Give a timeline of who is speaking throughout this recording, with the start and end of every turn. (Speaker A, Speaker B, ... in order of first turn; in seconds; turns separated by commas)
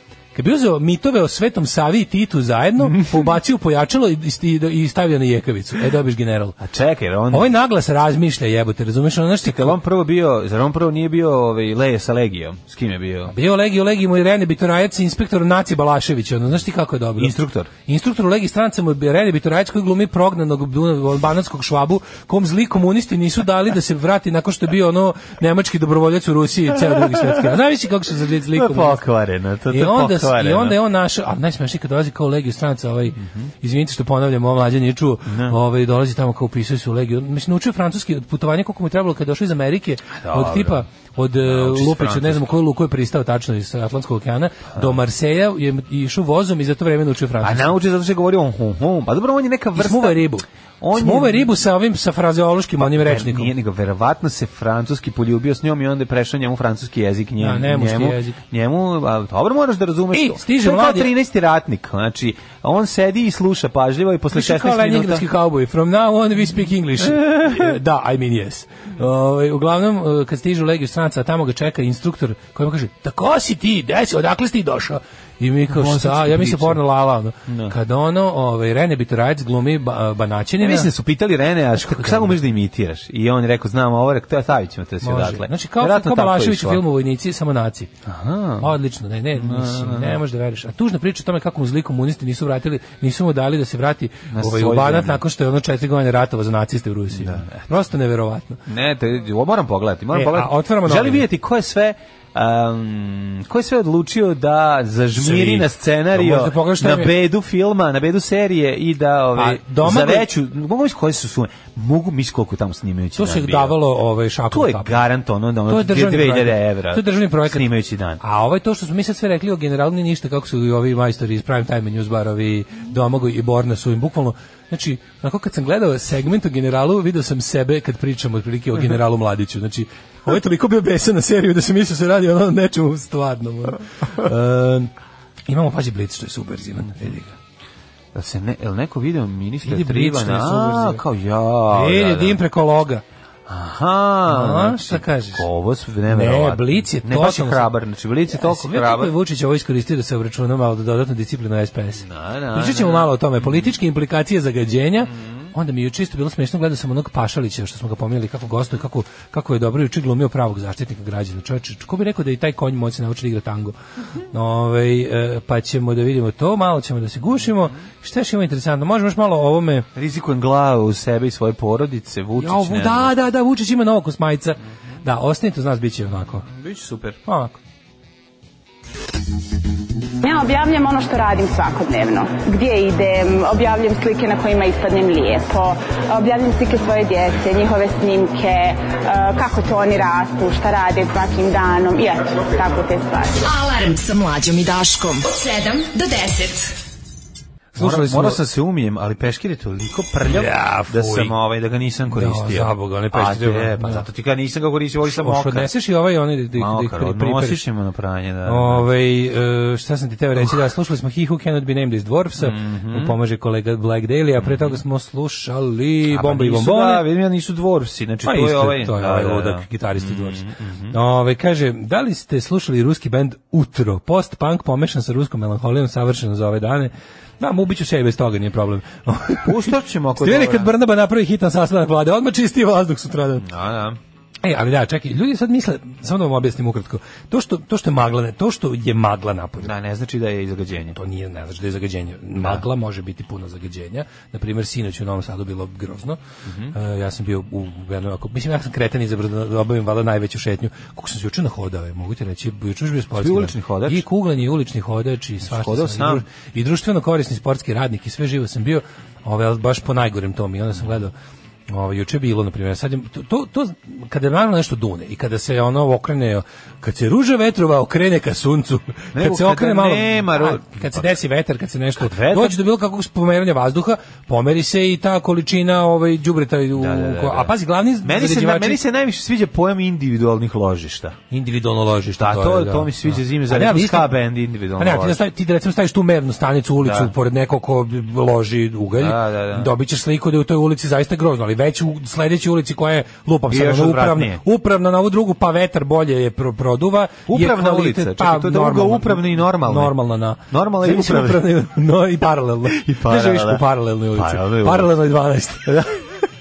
Speaker A: 0.3-6.6, Speaker B: 2.9-3.2, Speaker B: 6.6-7.5, Speaker A: 7.3-9.8, Speaker B: 9.4-13.3, Speaker A: 13.3-17.3, Speaker B: 17.2-17.7, Speaker A: 17.9-29.0, Speaker B: 26.8-27.5, Speaker B: 28.5-30.8, Speaker A: 29.7-47.8, Speaker B: 35.3-35.6, Speaker B: 40.1-40.8, Speaker B: 41.4-42.5, Speaker B: 47.4-50.3, Speaker A: 49.8-53.5, Speaker B: 50.8-51.5, Speaker B: 52.8-65.3, Speaker A: 57.4-58.4, Speaker A: 60.1-61.1, Speaker A: 64.3-80.9, Speaker B: 67.0-67.8, Speaker B: 75.7-76.8, Speaker B: 77.5-77.8, Speaker B: 80.6-86.8, Speaker A: 81.8-82.4, Speaker A: 85.0-87.9, Speaker B: 88.0-88.7, Speaker A: 88.6-98.6, Speaker B: 89.3-90.2, Speaker B: 94.3-95.2, Speaker B: 97.1-97.7, Speaker B: 98.7-113.8, Speaker A: 100.1-101.2, Speaker A: 105.2-107.1, Speaker A: 109.3-110.3, Speaker A: 113.2-115.0, Speaker B: 114.5-118.2, Speaker A: 115.7-117.7, Speaker A: 118.2-134.9, Speaker A: 135.5-137.3, Speaker B: 138.1-142.4, Speaker A: 139.6-141.0, Speaker A: 141.7-143.0, Speaker B: 143.5-149.2, Speaker A: 144.3-145.5, Speaker A: 146.1-147.7, Speaker A: 148.3-163.8, Speaker B: 152.0-153.7, Speaker B: 155.1-155.5, Speaker A: 164.3-169.9, Speaker B: 169.9-173.1, Speaker A: 172.4-176.5, Speaker B: 176.5-177.2, Speaker A: 177.2-177.6, Speaker C: 180.2-193.3, Speaker D: 193.4-196.8, Speaker A: 197.7-198.4, Speaker B: 197.8-205.7, Speaker A: 200.2-201.3, Speaker A: 202.1-204.1, Speaker A: 205.1-207.6, Speaker B: 206.5-208.9, Speaker A: 208.4-217.1, Speaker B: 212.4-213.2, Speaker B: 214.4-214.8, Speaker B: 216.1-221.0, Speaker A: 218.2-233.5, Speaker B: 229.4-230.7, Speaker B: 233.4-234.0, Speaker A: 234.4-239.7, Speaker B: 239.6-241.0, Speaker A: 240.9-246.2, Speaker B: 246.4-246.8, Speaker A: 246.7-261.1, Speaker B: 253.2-254.1, Speaker B: 255.4-256.2, Speaker A: 261.7-278.8, Speaker B: 269.1-271.1, Speaker B: 272.0-272.6, Speaker B: 276.8-281.2, Speaker A: 281.3-284.1, Speaker B: 282.2-285.2, Speaker A: 284.8-305.8, Speaker B: 286.8-287.1, Speaker B: 289.0-289.7, Speaker B: 293.5-294.4, Speaker B: 297.3-300.0, Speaker B: 300.5-301.4, Speaker B: 302.7-304.9, Speaker B: 305.7-305.9